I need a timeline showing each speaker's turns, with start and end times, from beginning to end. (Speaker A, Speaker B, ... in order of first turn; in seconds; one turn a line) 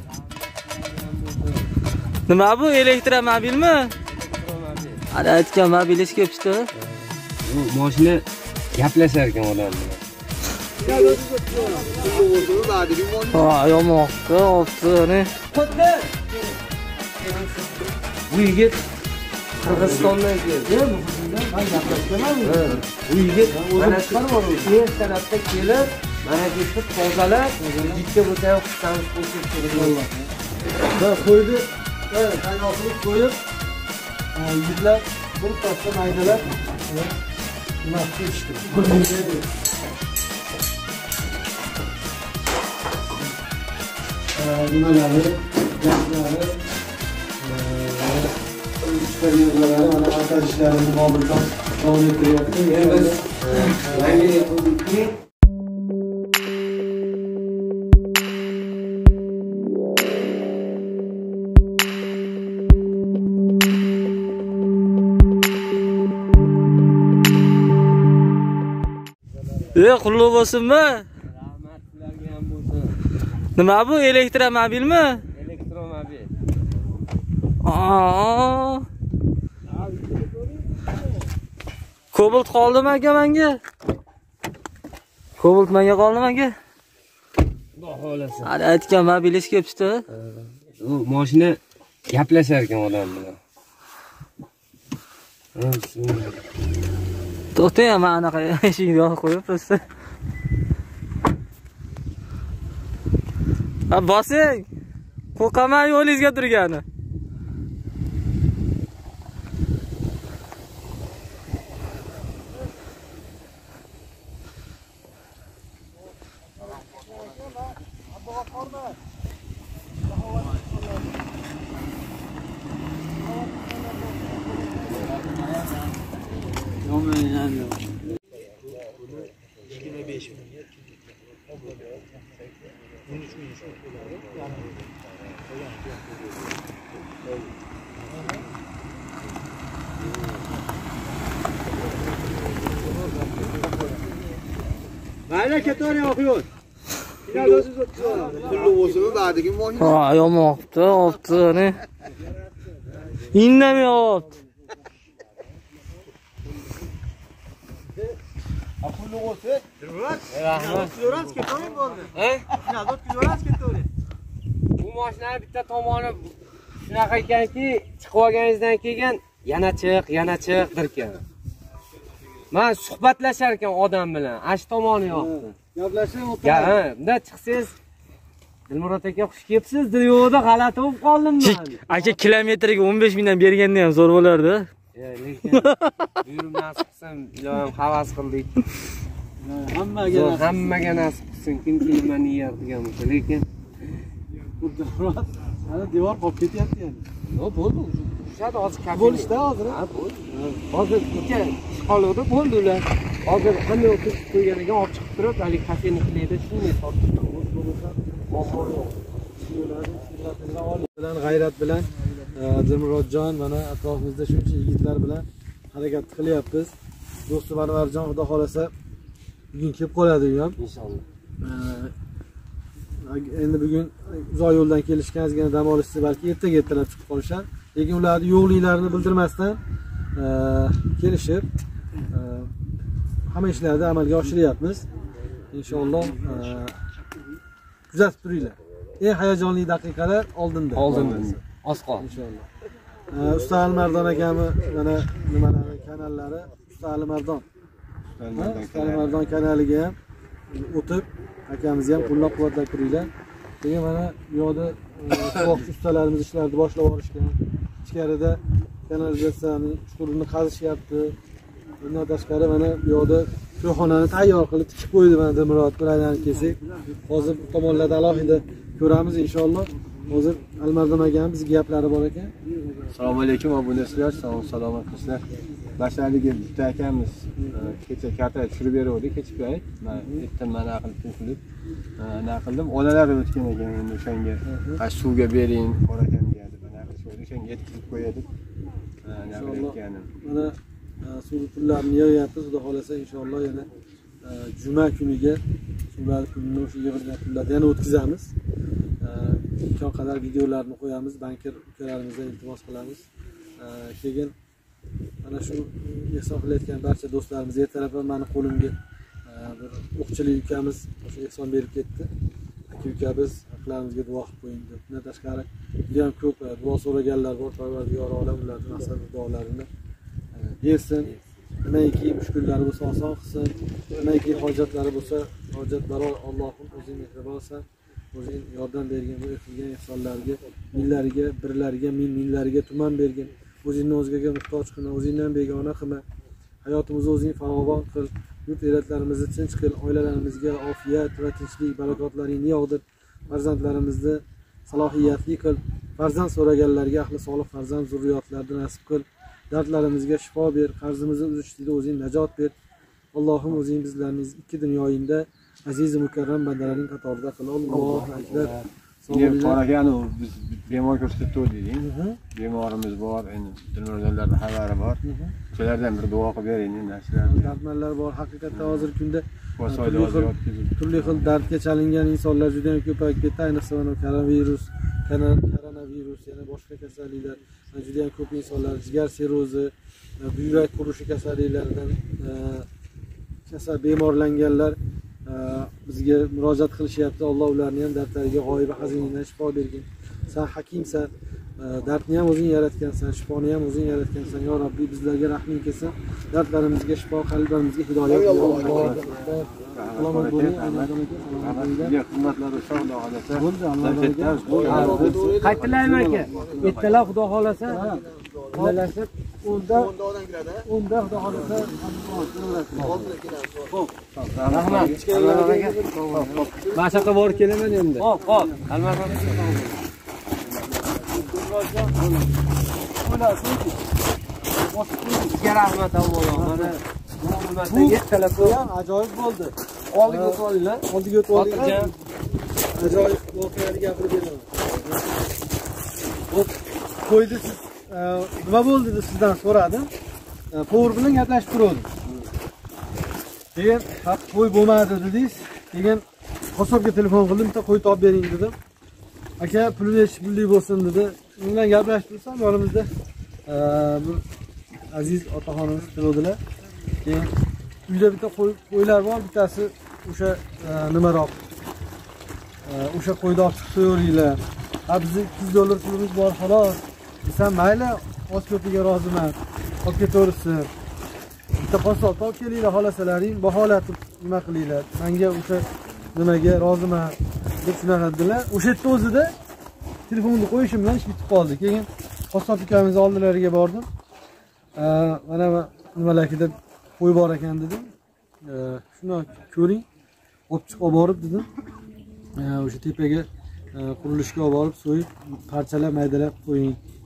Speaker A: 0.1-1.7
Speaker B: 2.3-3.9
Speaker A: 4.1-5.0
Speaker B: 5.1-6.7
Speaker A: 7.4-10.0
Speaker A: 10.8-11.1
Speaker A: 11.7-12.3
Speaker B: 13.2-15.3
Speaker A: 15.5-16.3
Speaker A: 17.2-18.8
Speaker A: 19.6-20.7
Speaker C: 19.6-22.9
Speaker A: 22.4-30.0
Speaker C: 23.5-24.8
Speaker C: 27.6-28.0
Speaker C: 29.7-30.3
Speaker C: 30.9-33.4
Speaker C: 34.3-37.1
Speaker C: 37.8-39.5
Speaker C: 44.3-46.6
Speaker C: 47.4-54.3
Speaker A: 52.7-55.2
Speaker B: 69.7-71.1
Speaker A: 71.3-73.0
Speaker B: 73.6-75.2
Speaker A: 75.3-76.3
Speaker B: 77.6-78.9
Speaker B: 82.1-83.6
Speaker B: 85.4-86.5
Speaker A: 87.8-88.5
Speaker B: 88.4-90.0
Speaker A: 90.2-93.4
Speaker A: 95.5-96.4
Speaker B: 97.5-99.8
Speaker B: 103.9-104.7
Speaker B: 105.4-106.8
Speaker C: 118.5-118.7
Speaker C: 120.4-120.7
Speaker C: 126.9-127.8
Speaker C: 129.8-130.4
Speaker C: 133.1-134.7
Speaker A: 145.3-146.5
Speaker A: 147.3-148.8
Speaker C: 147.3-149.1
Speaker B: 149.6-151.8
Speaker B: 153.3-154.3
Speaker C: 158.9-159.4
Speaker A: 160.2-161.0
Speaker C: 160.5-163.9
Speaker A: 162.1-162.5
Speaker A: 164.8-171.2
Speaker A: 172.5-175.5
Speaker C: 175.1-176.8
Speaker A: 176.4-177.8
Speaker A: 178.7-181.8
Speaker B: 181.4-184.7
Speaker A: 184.9-188.6
Speaker B: 185.5-185.9
Speaker C: 189.4-191.1
Speaker A: 190.1-193.5
Speaker C: 194.6-197.1
Speaker A: 197.3-207.3
Speaker C: 198.9-200.6
Speaker C: 207.2-208.8
Speaker A: 208.3-208.9
Speaker C: 209.4-216.7
Speaker C: 217.3-218.7
Speaker C: 219.5-220.6
Speaker A: 220.6-221.0
Speaker C: 221.4-221.9
Speaker C: 223.0-229.6
Speaker C: 230.2-231.5
Speaker C: 232.0-232.5
Speaker C: 233.3-234.9
Speaker C: 235.5-236.8
Speaker C: 237.9-241.4
Speaker A: 240.7-242.1
Speaker D: 240.8-241.4
Speaker C: 242.0-242.5
Speaker C: 243.1-247.5
Speaker D: 248.2-249.2
Speaker C: 248.3-250.0
Speaker C: 250.5-253.1
Speaker C: 253.6-261.2
Speaker C: 261.8-272.3
Speaker D: 272.9-275.2
Speaker D: 275.8-281.4
Speaker C: 279.9-280.2
Speaker D: 282.0-288.2
Speaker C: 284.4-284.8
Speaker D: 289.0-290.1
Speaker C: 289.3-293.7
Speaker C: 294.2-295.4
Speaker C: 295.9-298.4
Speaker C: 299.0-303.1
Speaker C: 303.6-304.3
Speaker C: 305.2-312.1
Speaker C: 312.7-319.7
Speaker C: 320.4-336.1
Speaker C: 336.6-352.5
Speaker C: 353.1-359.6
Speaker D: 357.7-367.6
Speaker C: 361.8-362.2
Speaker C: 365.0-365.4
Speaker C: 367.2-382.7
Speaker D: 368.5-368.9
Speaker D: 369.6-371.5
Speaker C: 383.5-402.0
Speaker D: 398.3-407.0
Speaker C: 403.3-406.9
Speaker A: 404.7-407.9
Speaker C: 407.7-408.9
Speaker A: 408.5-409.1
Speaker C: 409.4-410.1
Speaker C: 410.6-419.7
Speaker A: 412.8-413.2
Speaker D: 414.1-415.0
Speaker A: 414.5-417.0
Speaker A: 417.9-419.8
Speaker C: 420.9-422.1
Speaker C: 422.9-423.8
Speaker C: 424.6-425.4
Speaker A: 425.2-428.6
Speaker C: 426.3-426.8
Speaker C: 427.6-432.0
Speaker A: 429.9-431.9
Speaker C: 432.7-434.9
Speaker C: 436.3-439.9
Speaker C: 440.5-441.9
Speaker C: 443.6-448.6
Speaker C: 449.4-452.9
Speaker C: 453.5-454.2
Speaker C: 454.9-456.4
Speaker C: 457.0-457.3
Speaker C: 457.9-461.4
Speaker C: 462.6-470.7
Speaker C: 471.5-479.3
Speaker C: 480.1-483.9
Speaker C: 484.8-489.9
Speaker C: 490.5-491.5
Speaker C: 492.4-496.8